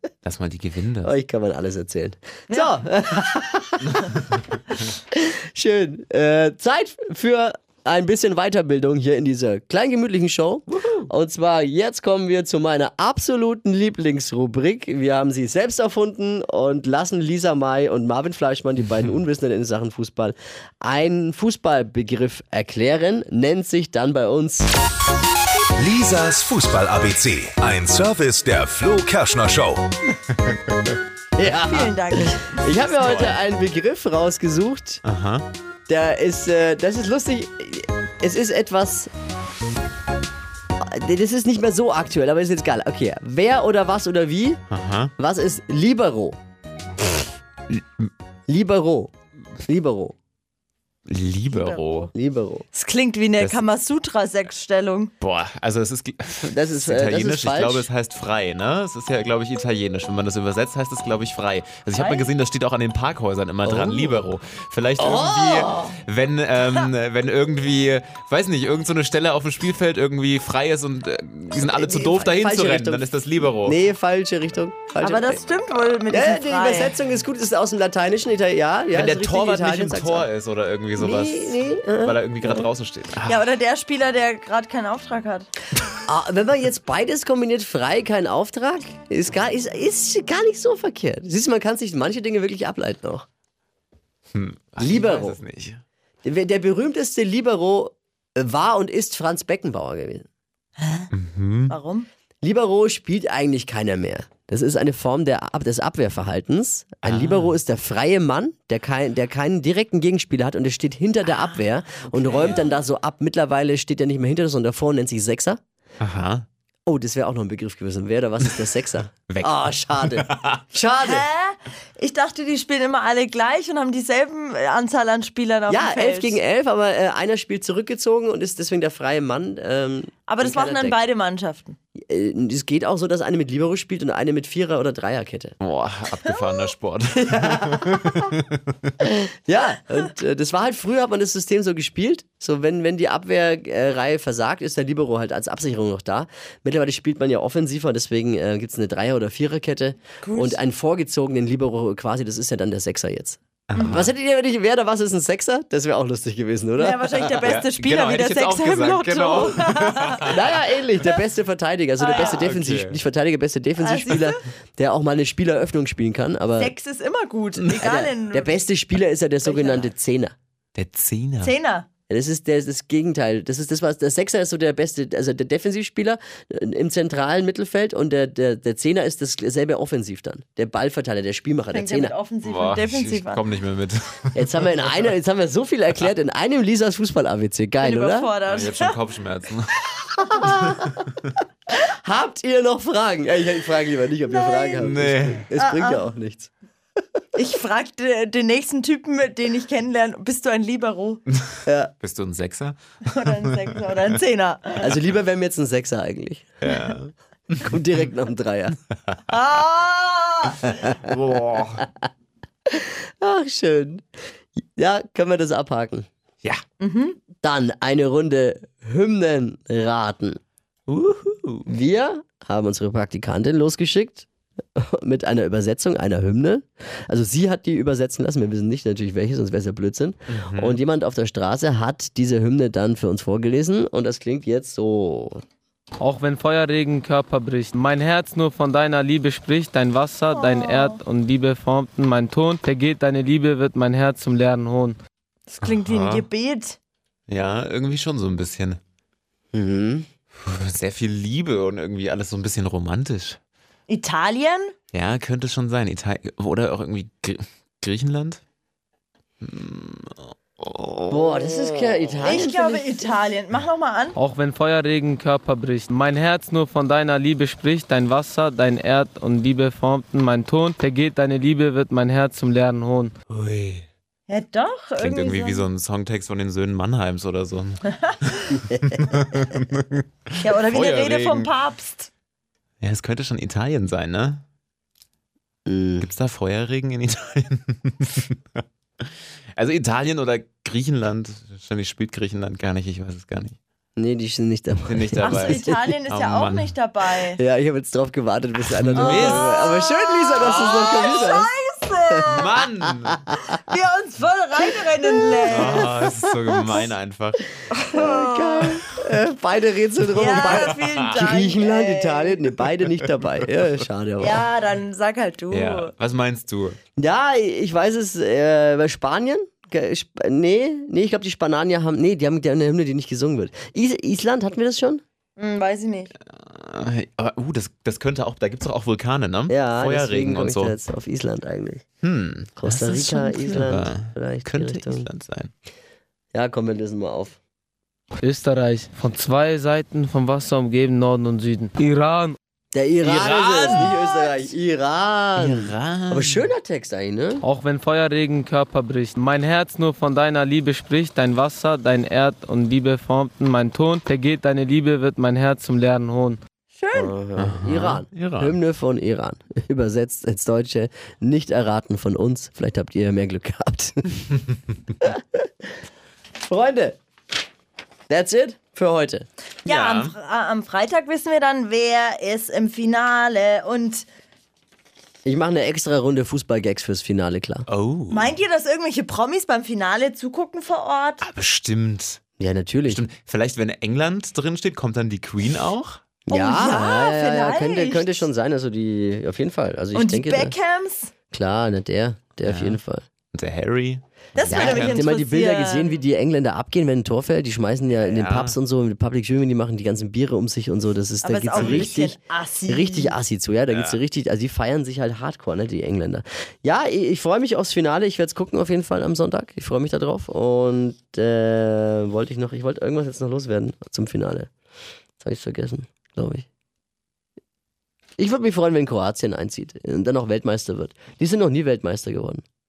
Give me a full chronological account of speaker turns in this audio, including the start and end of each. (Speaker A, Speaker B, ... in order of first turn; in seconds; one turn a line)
Speaker A: 0.2-1.1
Speaker B: 1.0-4.2
Speaker C: 2.5-2.8
Speaker A: 3.9-4.4
Speaker B: 5.1-24.7
Speaker A: 10.7-11.1
Speaker D: 25.8-29.8
Speaker A: 30.3-30.9
Speaker B: 31.4-35.0
Speaker C: 31.7-32.5
Speaker A: 32.9-33.4
Speaker A: 35.0-35.5
Speaker B: 35.9-39.1
Speaker B: 40.8-44.6
Speaker A: 44.7-45.1
Speaker B: 45.2-46.4
Speaker A: 47.7-48.1
Speaker B: 48.5-49.1
Speaker B: 49.6-50.1
Speaker A: 51.1-52.1
Speaker B: 52.1-52.6
Speaker C: 52.7-55.1
Speaker A: 53.4-53.6
Speaker A: 55.2-73.8
Speaker B: 56.4-57.9
Speaker C: 61.9-62.3
Speaker B: 63.6-64.3
Speaker B: 65.0-66.0
Speaker B: 71.6-73.1
Speaker B: 73.6-75.4
Speaker C: 75.0-77.0
Speaker B: 76.1-80.3
Speaker A: 78.9-83.4
Speaker B: 81.0-82.7
Speaker C: 83.3-85.5
Speaker B: 86.0-93.2
Speaker A: 94.3-95.8
Speaker B: 94.8-95.4
Speaker B: 96.2-100.2
Speaker C: 100.8-101.1
Speaker A: 101.1-101.7
Speaker C: 101.7-102.1
Speaker B: 102.4-115.6
Speaker A: 107.0-107.5
Speaker A: 116.0-116.5
Speaker B: 116.8-121.2
Speaker A: 119.3-120.6
Speaker C: 121.0-126.4
Speaker B: 125.7-131.0
Speaker C: 130.3-131.8
Speaker B: 131.9-135.5
Speaker A: 135.6-138.6
Speaker B: 137.2-138.3
Speaker B: 139.0-157.6
Speaker C: 150.2-150.6
Speaker A: 153.7-154.1
Speaker C: 156.8-160.2
Speaker A: 157.4-160.3
Speaker B: 160.2-166.7
Speaker C: 162.0-162.4
Speaker A: 162.1-163.0
Speaker C: 163.8-164.4
Speaker C: 166.6-168.6
Speaker B: 167.8-170.3
Speaker C: 169.4-169.9
Speaker A: 170.8-171.5
Speaker C: 171.4-171.9
Speaker B: 172.1-182.1
Speaker C: 181.7-183.4
Speaker A: 182.4-185.0
Speaker B: 184.3-188.3
Speaker C: 187.8-189.0
Speaker A: 188.5-191.3
Speaker B: 190.2-190.9
Speaker B: 191.7-196.5
Speaker C: 194.2-194.8
Speaker A: 194.8-195.4
Speaker C: 195.6-196.0
Speaker C: 197.3-201.2
Speaker B: 201.7-201.9
Speaker A: 202.0-204.2
Speaker C: 203.1-204.8
Speaker B: 204.8-206.5
Speaker A: 206.6-207.7
Speaker B: 207.6-208.8
Speaker C: 209.3-210.7
Speaker A: 211.0-211.8
Speaker B: 211.8-212.0
Speaker B: 212.7-214.0
Speaker B: 214.8-216.1
Speaker C: 216.8-217.2
Speaker B: 217.4-220.4
Speaker A: 220.9-221.7
Speaker B: 221.7-235.4
Speaker A: 230.3-230.8
Speaker E: 236.0-244.9
Speaker C: 240.3-241.0
Speaker C: 245.5-246.8
Speaker A: 245.6-246.3
Speaker A: 247.3-248.8
Speaker B: 249.5-250.1
Speaker A: 250.4-253.4
Speaker C: 253.9-254.7
Speaker A: 254.9-258.4
Speaker A: 259.4-262.1
Speaker B: 261.1-263.0
Speaker C: 262.2-264.1
Speaker E: 264.1-273.1
Speaker A: 273.3-273.8
Speaker C: 274.3-275.7
Speaker A: 275.0-281.5
Speaker C: 280.4-282.1
Speaker A: 282.8-284.4
Speaker B: 285.6-286.1
Speaker A: 286.0-288.6
Speaker A: 289.6-293.6
Speaker B: 294.0-295.9
Speaker A: 294.8-296.7
Speaker C: 295.2-297.4
Speaker B: 297.4-301.5
Speaker A: 298.8-299.6
Speaker C: 299.0-302.5
Speaker A: 300.4-301.2
Speaker B: 302.1-302.6
Speaker A: 302.3-303.2
Speaker C: 303.5-305.9
Speaker B: 305.3-305.9
Speaker A: 305.5-307.4
Speaker C: 307.7-308.8
Speaker B: 307.9-314.4
Speaker C: 310.1-312.4
Speaker A: 310.2-311.1
Speaker C: 314.2-315.9
Speaker A: 315.5-316.8
Speaker B: 317.0-325.0
Speaker C: 325.4-326.1
Speaker A: 326.3-330.8
Speaker B: 329.5-331.8
Speaker A: 332.0-335.5
Speaker B: 332.6-335.1
Speaker B: 336.3-337.4
Speaker E: 338.2-342.4
Speaker B: 342.7-347.4
Speaker A: 343.0-343.9
Speaker C: 343.6-344.4
Speaker A: 345.4-346.5
Speaker E: 347.4-356.4
Speaker C: 356.7-357.1
Speaker B: 356.9-364.4
Speaker A: 357.4-358.5
Speaker B: 365.0-365.4
Speaker B: 366.5-367.0
Speaker B: 368.1-369.2
Speaker C: 369.6-374.1
Speaker A: 369.6-370.1
Speaker B: 375.2-377.6
Speaker A: 377.7-378.3
Speaker C: 378.1-381.2
Speaker A: 381.2-382.2
Speaker B: 382.4-383.0
Speaker A: 382.9-386.0
Speaker B: 386.3-390.5
Speaker C: 386.3-388.2
Speaker C: 389.9-391.1
Speaker B: 391.3-393.0
Speaker A: 392.4-392.8
Speaker A: 393.3-395.0
Speaker C: 394.4-395.9
Speaker B: 394.5-402.2
Speaker A: 398.0-398.6
Speaker C: 401.2-403.1
Speaker A: 401.5-401.9
Speaker B: 402.7-414.5
Speaker A: 403.7-404.0
Speaker B: 415.2-416.4
Speaker B: 418.2-422.4